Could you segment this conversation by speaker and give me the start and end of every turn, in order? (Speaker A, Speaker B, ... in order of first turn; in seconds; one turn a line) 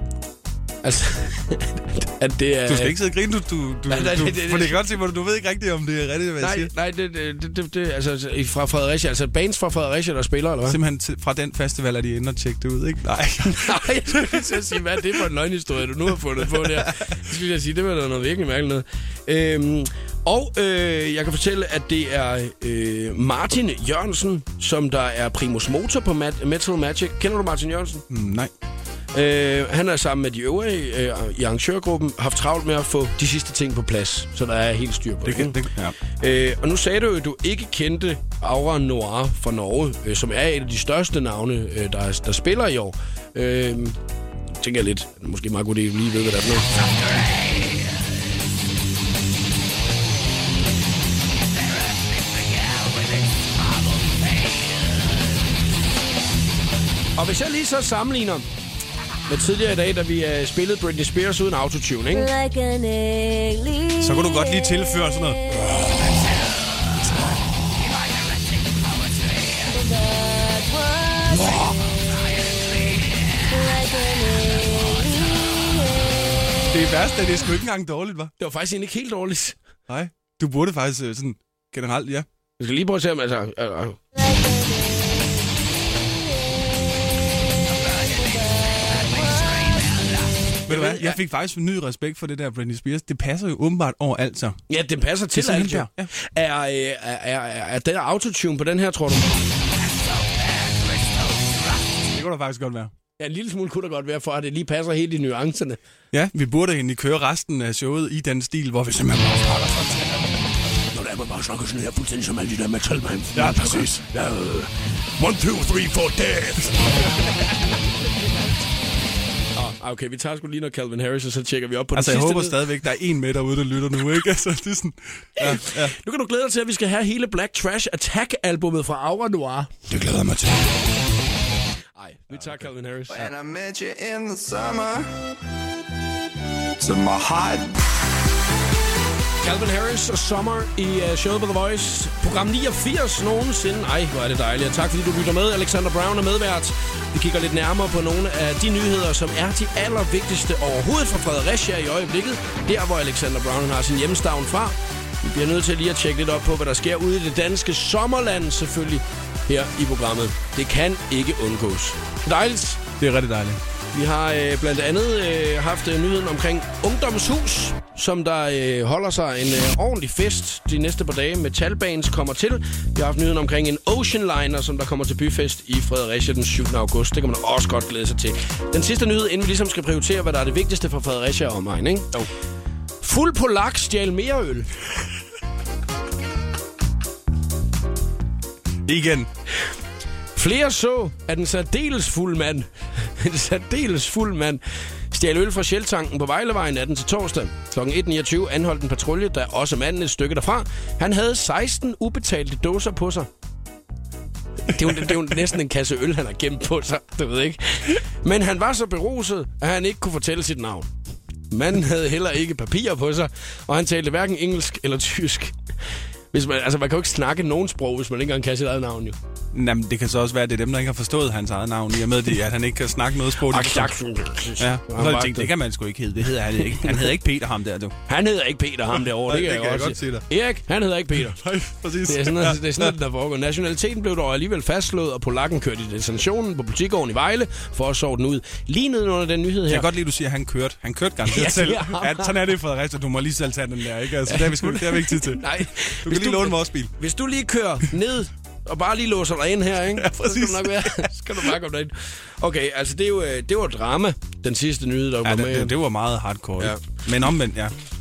Speaker A: 0.8-3.0
Speaker B: 2.7-6.7
Speaker A: 3.9-4.8
Speaker A: 6.4-10.8
Speaker B: 10.7-14.7
Speaker A: 13.6-28.1
Speaker B: 16.5-17.1
Speaker B: 28.1-28.5
Speaker A: 29.1-35.6
Speaker B: 35.2-36.0
Speaker A: 36.1-44.0
Speaker A: 44.6-46.9
Speaker A: 57.2-58.5
Speaker A: 59.3-62.3
Speaker C: 62.1-65.7
Speaker B: 64.0-65.4
Speaker C: 69.7-71.8
Speaker B: 71.3-71.8
Speaker C: 73.5-76.2
Speaker B: 76.7-78.3
Speaker A: 78.4-79.6
Speaker B: 79.9-82.3
Speaker A: 82.6-84.0
Speaker C: 84.2-85.3
Speaker C: 87.7-90.0
Speaker B: 90.7-94.6
Speaker A: 90.7-91.2
Speaker A: 94.7-99.5
Speaker B: 95.3-96.1
Speaker A: 100.5-101.6
Speaker B: 102.1-102.9
Speaker A: 103.2-105.8
Speaker B: 106.1-110.3
Speaker A: 110.9-117.1
Speaker B: 113.3-113.9
Speaker A: 119.5-122.6
Speaker B: 121.9-126.0
Speaker A: 125.4-129.9
Speaker B: 129.9-130.7
Speaker A: 132.0-133.3
Speaker D: 133.1-135.1
Speaker D: 136.8-137.8
Speaker A: 139.4-162.8
Speaker B: 163.0-163.6
Speaker A: 163.9-182.1
Speaker A: 183.0-184.7
Speaker B: 188.9-189.3
Speaker A: 190.3-203.3
Speaker A: 204.7-210.9
Speaker A: 211.5-215.6
Speaker A: 216.3-219.2
Speaker B: 219.5-223.9
Speaker A: 223.5-225.5
Speaker B: 224.6-228.0
Speaker A: 228.1-231.4
Speaker B: 229.0-230.2
Speaker B: 231.2-232.9
Speaker A: 232.1-239.9
Speaker B: 239.7-246.9
Speaker A: 241.3-242.4
Speaker A: 244.3-255.7
Speaker B: 249.9-251.1
Speaker B: 255.2-257.7